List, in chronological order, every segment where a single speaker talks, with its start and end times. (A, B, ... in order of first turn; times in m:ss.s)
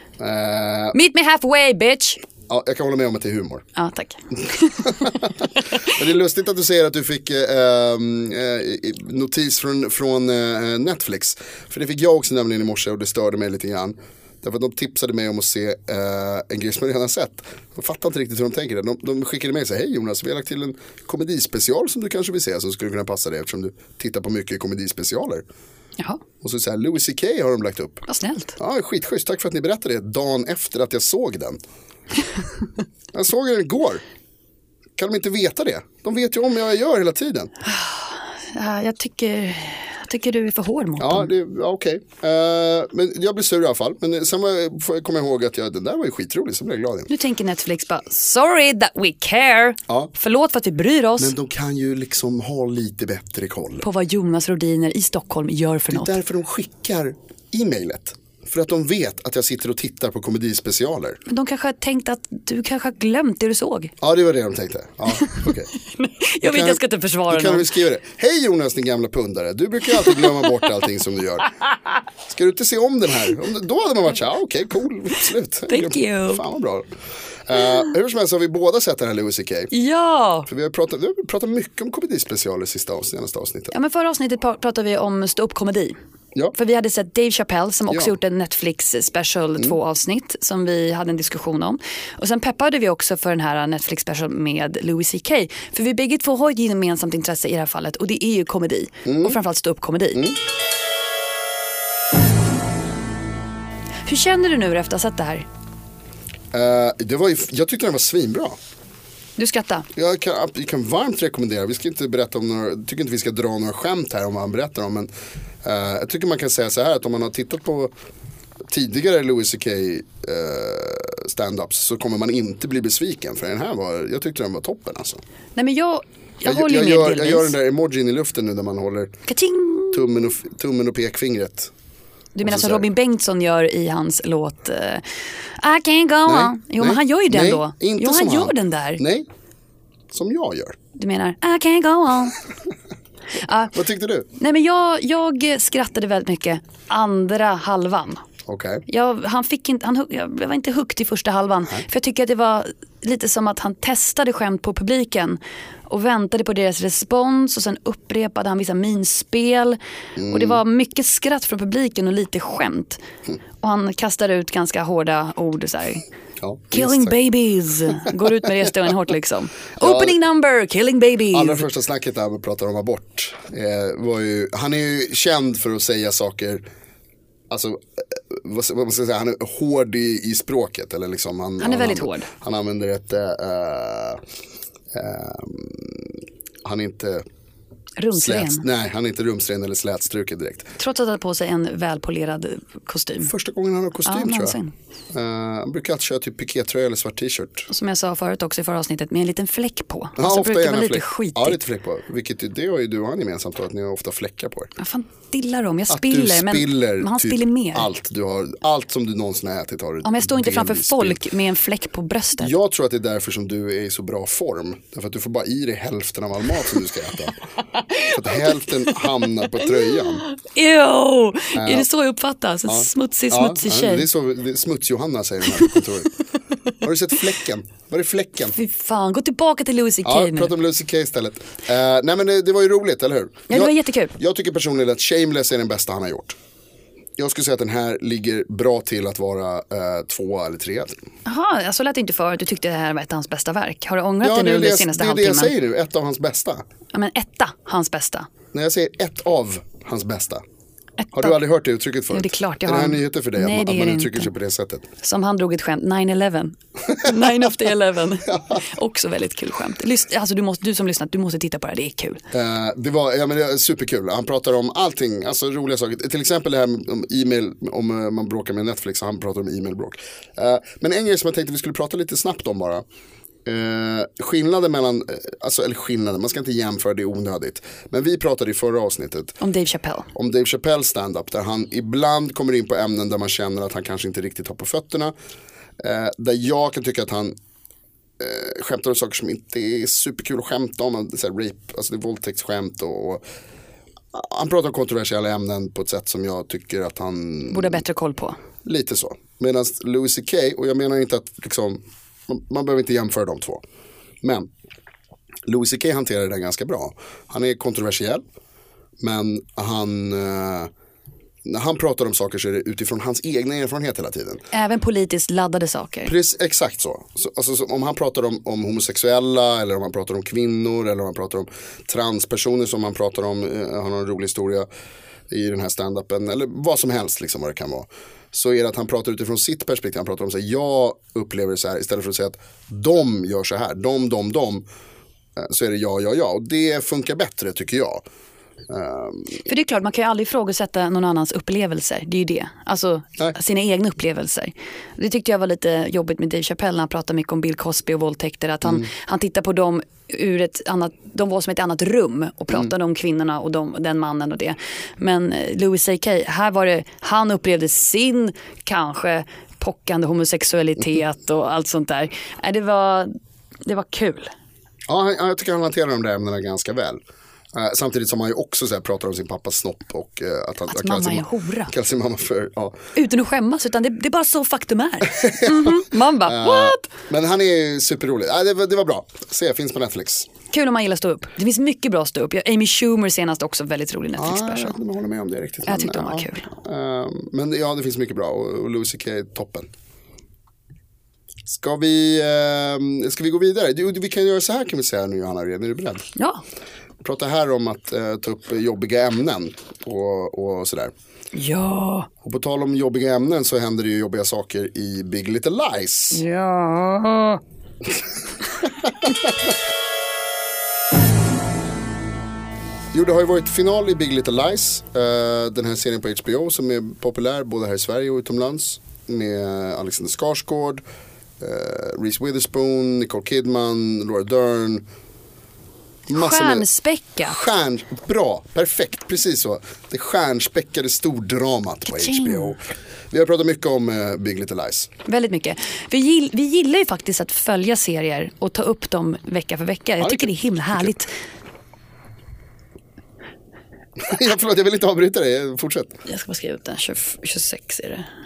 0:00.2-0:01.0 A
0:00.9-0:02.2 B
0:02.5-0:03.6 A
0:03.8-0:06.0 B
0:04.8-0:25.4 A
0:26.4-0:28.0 A
0:28.1-0:28.6 B
0:28.6-0:31.6 A
0:33.1-0:34.0 A
0:35.0-0:37.5 A
0:37.6-0:41.3 B
0:41.0-0:47.1 A
0:47.1-0:51.3 B
0:51.2-0:53.8 A
0:53.8-0:56.1 B
0:55.9-1:01.2 A
1:01.3-1:03.9 B
1:04.0-1:05.7 A
1:05.2-1:07.7 B
1:06.4-1:11.5 A
1:12.3-1:16.9 A
1:15.7-1:16.4 B
1:17.5-1:19.7 A
1:19.7-1:20.5 B
1:20.5-1:23.7 A
1:23.7-1:26.0 B
1:26.5-1:40.3 B
1:39.0-1:39.4 A
1:44.0-1:45.5 B
1:46.5-1:48.6 A
1:49.4-1:49.9 B
1:49.9-1:55.1 A
1:55.6-1:57.9 A
1:58.7-2:05.2 A
2:05.6-2:07.5 B
2:06.4-2:09.1 A
2:09.3-2:10.3 B
2:09.9-2:11.7 A
2:12.3-2:15.0 B
2:12.4-2:12.9 A
2:15.6-2:19.0 B
2:16.2-2:19.3 A
2:20.1-2:20.8 A
2:20.9-2:22.4 B
2:23.4-2:23.7 B
2:23.7-2:24.3 A
2:24.3-2:28.2 B
2:28.5-2:28.8 A
2:28.9-2:39.8 B
2:40.2-2:40.6 A
2:40.3-2:43.0 B
2:43.6-2:46.0 B
2:46.4-2:47.2 A
2:46.7-2:51.6 B
2:49.8-2:50.2 A
2:51.3-2:56.6 A
2:57.5-3:04.2 A
3:01.6-3:02.3 B
3:04.9-3:07.2 A
3:08.0-3:08.6 B
3:08.1-3:10.7 A
3:10.8-3:13.3 B
3:13.2-3:14.6 A
3:14.0-3:14.7 B
3:15.1-3:17.7 A
3:17.7-3:21.6 B
3:20.2-3:24.7 A
3:24.8-3:27.9 B
3:25.9-3:31.2 A
3:30.0-3:32.5 B
3:32.4-3:37.3 A
3:38.0-3:38.4 B
3:38.0-3:40.2 A
3:40.0-3:44.1 B
3:41.5-3:41.9 A
3:42.7-3:46.1 A
3:46.8-3:48.6 A
3:48.5-3:50.5 B
3:50.0-3:56.4 A
3:53.5-3:54.1 B
3:57.2-4:01.0 A
4:01.2-4:05.5 B
4:04.2-4:06.6 A
4:06.9-4:08.3 B
4:08.5-4:10.4 A
4:11.0-4:11.4 B
4:11.1-4:14.9 A
4:12.1-4:14.3 B
4:15.0-4:22.2 B
4:18.3-4:18.6 A
4:22.3-4:32.8 A
4:33.4-4:39.4 A
4:39.4-4:40.1 B
4:40.1-4:45.1 A
4:45.8-4:47.3 A
4:48.2-4:53.2 A
4:54.1-4:57.8 A
4:57.5-4:58.4 B
4:58.6-5:03.6 A
5:04.2-5:04.5 A
5:05.5-5:08.2 A
5:09.0-5:10.7 A
5:11.4-5:14.4 A
5:14.5-5:16.1 B
5:16.0-5:24.7 A
5:25.3-5:34.6 A
5:35.4-5:38.0 A
5:38.7-5:39.4 A
5:39.4-6:03.1 B
6:03.6-6:04.3 B
6:04.9-6:07.0 A
6:07.5-6:12.8 A
6:10.7-6:11.7 B
6:13.0-6:16.9 B
6:15.2-6:20.3 A
6:20.5-6:24.7 B
6:24.2-6:29.7 A
6:25.6-6:26.5 B
6:31.4-6:36.0 A
6:36.2-6:36.4 B
6:37.0-6:40.9 A
6:41.3-6:42.1 B
6:42.2-6:46.2 A
6:46.1-6:47.4 B
6:48.6-6:49.5 A
6:52.9-7:00.8 A
7:01.4-7:04.8 A
7:06.1-7:06.7 A
7:06.1-7:07.4 B
7:07.2-7:14.9 A
7:11.9-7:12.5 B
7:15.0-7:21.1 B
7:20.0-7:20.9 A
7:24.0-7:25.9 A
7:26.0-7:28.1 B